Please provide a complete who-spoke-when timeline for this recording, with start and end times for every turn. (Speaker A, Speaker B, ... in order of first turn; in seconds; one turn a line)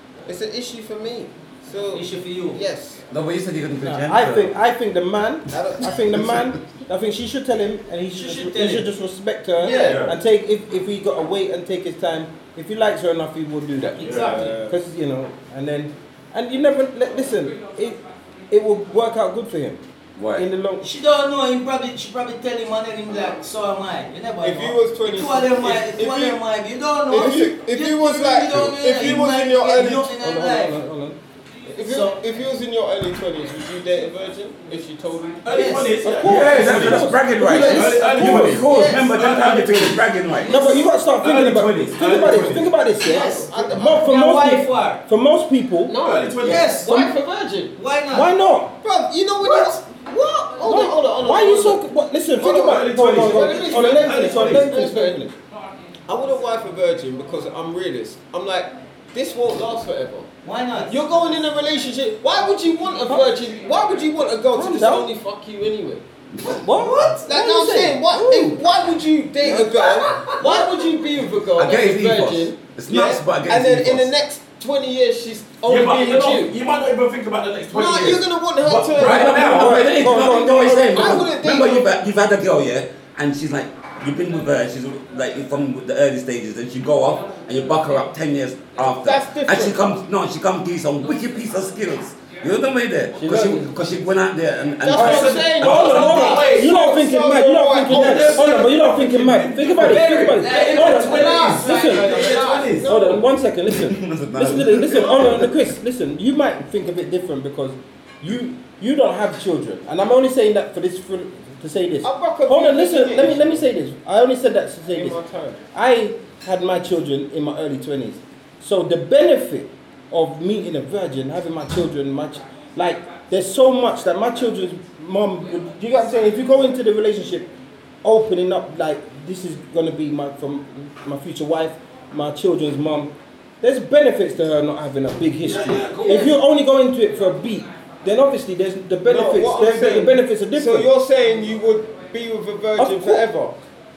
Speaker A: 0.3-3.0
Speaker B: 1.9-2.6
Speaker C: 3.1-4.5
Speaker D: 3.8-19.8
Speaker A: 5.5-5.9
Speaker B: 8.1-8.9
Speaker A: 9.6-10.0
Speaker E: 9.6-10.1
Speaker B: 9.7-9.9
Speaker B: 13.9-14.6
Speaker E: 14.0-14.4
Speaker A: 14.2-14.7
Speaker C: 20.1-20.5
Speaker D: 20.3-20.9
Speaker B: 20.8-30.8
Speaker A: 24.4-26.4
Speaker A: 27.1-30.1
Speaker D: 30.2-31.2
Speaker A: 31.6-35.7
Speaker B: 31.8-32.2
Speaker E: 35.4-40.1
Speaker B: 35.5-36.0
Speaker D: 36.0-38.6
Speaker C: 36.2-40.6
Speaker B: 37.5-37.9
Speaker B: 38.6-39.0
Speaker B: 40.4-40.8
Speaker D: 40.5-46.0
Speaker E: 41.2-42.7
Speaker B: 43.0-45.0
Speaker A: 43.1-44.0
Speaker A: 45.9-47.7
Speaker E: 46.0-46.7
Speaker B: 46.4-47.1
Speaker B: 47.7-48.3
Speaker D: 48.1-48.7
Speaker A: 48.8-51.8
Speaker B: 49.4-49.8
Speaker D: 50.6-55.3
Speaker A: 52.4-55.2
Speaker E: 52.4-54.8
Speaker A: 56.1-60.3
Speaker B: 60.4-61.0
Speaker A: 60.8-66.0
Speaker D: 64.5-65.1
Speaker D: 66.5-68.6
Speaker A: 67.0-76.5
Speaker D: 69.4-70.3
Speaker C: 71.5-74.1
Speaker E: 75.6-79.8
Speaker A: 77.7-79.5
Speaker C: 78.9-96.1
Speaker D: 79.2-81.2
Speaker A: 80.5-81.9
Speaker A: 88.9-89.8
Speaker D: 93.2-93.7
Speaker A: 93.3-93.6
Speaker A: 94.8-98.5
Speaker E: 94.9-96.7
Speaker D: 94.9-102.3
Speaker E: 97.8-103.0
Speaker B: 99.8-102.7
Speaker A: 100.8-103.2
Speaker D: 102.8-115.2
Speaker C: 103.7-105.6
Speaker A: 112.0-113.6
Speaker A: 114.9-115.6
Speaker D: 115.7-127.5
Speaker D: 128.0-140.9
Speaker E: 135.4-136.3
Speaker B: 136.0-136.3
Speaker A: 139.1-143.6
Speaker D: 142.8-143.2